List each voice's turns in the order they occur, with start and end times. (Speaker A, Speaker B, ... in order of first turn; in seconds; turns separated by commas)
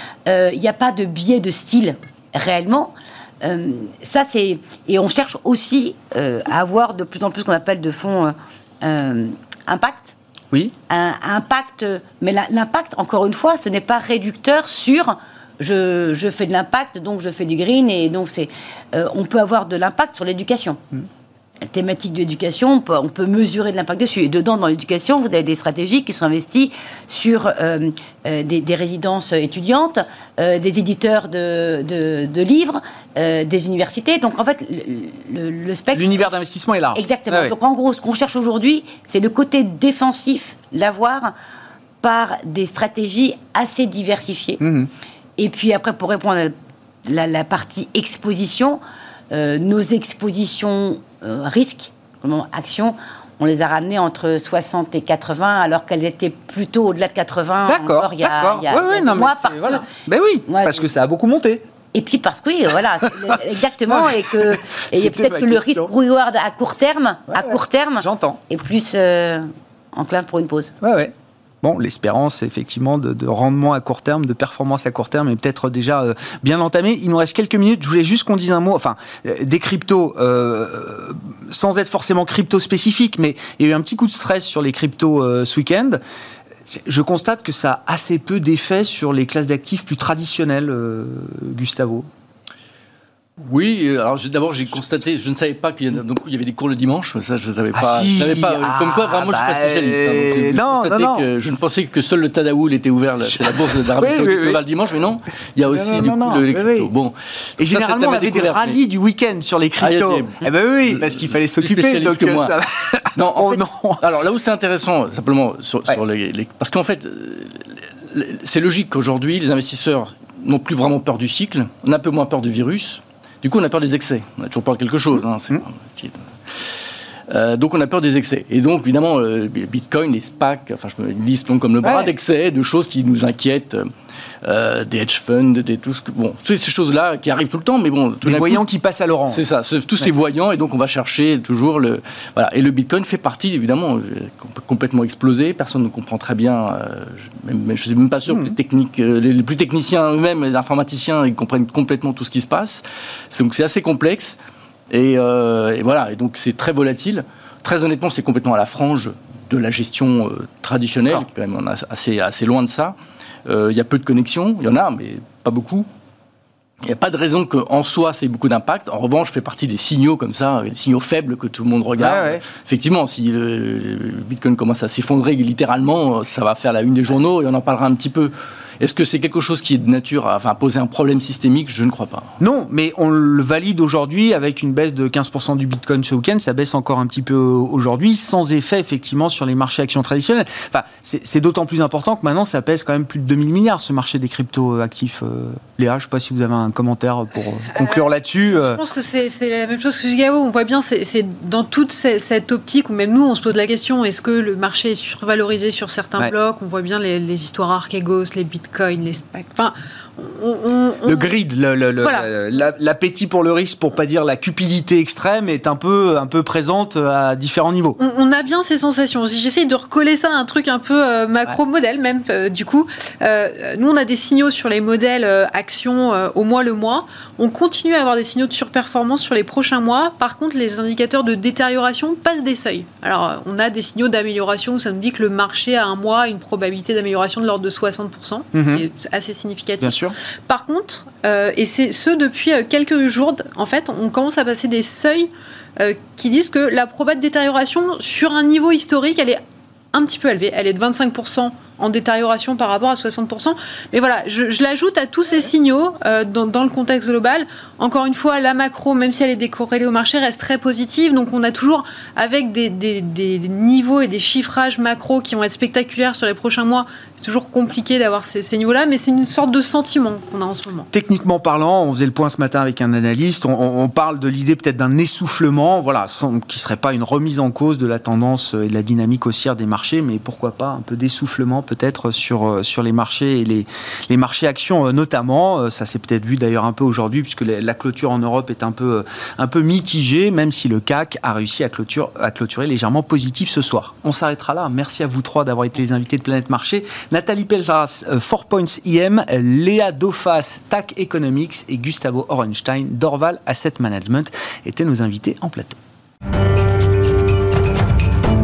Speaker A: 0.2-10.1, Speaker A: 10.9-20.8, Speaker A: 21.7-36.3, Speaker B: 35.9-37.5, Speaker A: 36.9-41.3, Speaker A: 42.0-44.6, Speaker B: 44.6-44.9, Speaker A: 45.4-46.5, Speaker A: 47.0-59.9, Speaker B: 57.6-61.6, Speaker A: 60.5-60.8, Speaker A: 61.9-70.7, Speaker B: 63.9-64.1, Speaker B: 64.9-65.9, Speaker B: 67.3-68.4, Speaker B: 70.8-86.0, Speaker B: 86.7-92.1, Speaker C: 93.4-108.8, Speaker B: 97.7-101.2, Speaker B: 103.3-104.6, Speaker B: 105.7-106.9, Speaker B: 107.6-114.0, Speaker C: 109.8-112.5, Speaker C: 113.1-133.9, Speaker B: 131.8-132.1, Speaker C: 134.4-138.6, Speaker B: 138.2-139.4, Speaker C: 139.3-154.4, Speaker B: 148.3-148.5, Speaker C: 154.9-165.9, Speaker C: 166.8-182.3, Speaker B: 172.0-172.4, Speaker B: 182.4-198.8, Speaker D: 197.7-211.3, Speaker B: 211.0-218.0, Speaker D: 212.0-212.3, Speaker D: 218.0-249.4, Speaker B: 238.5-238.8, Speaker B: 239.8-240.1, Speaker D: 249.9-270.9, Speaker B: 270.9-305.8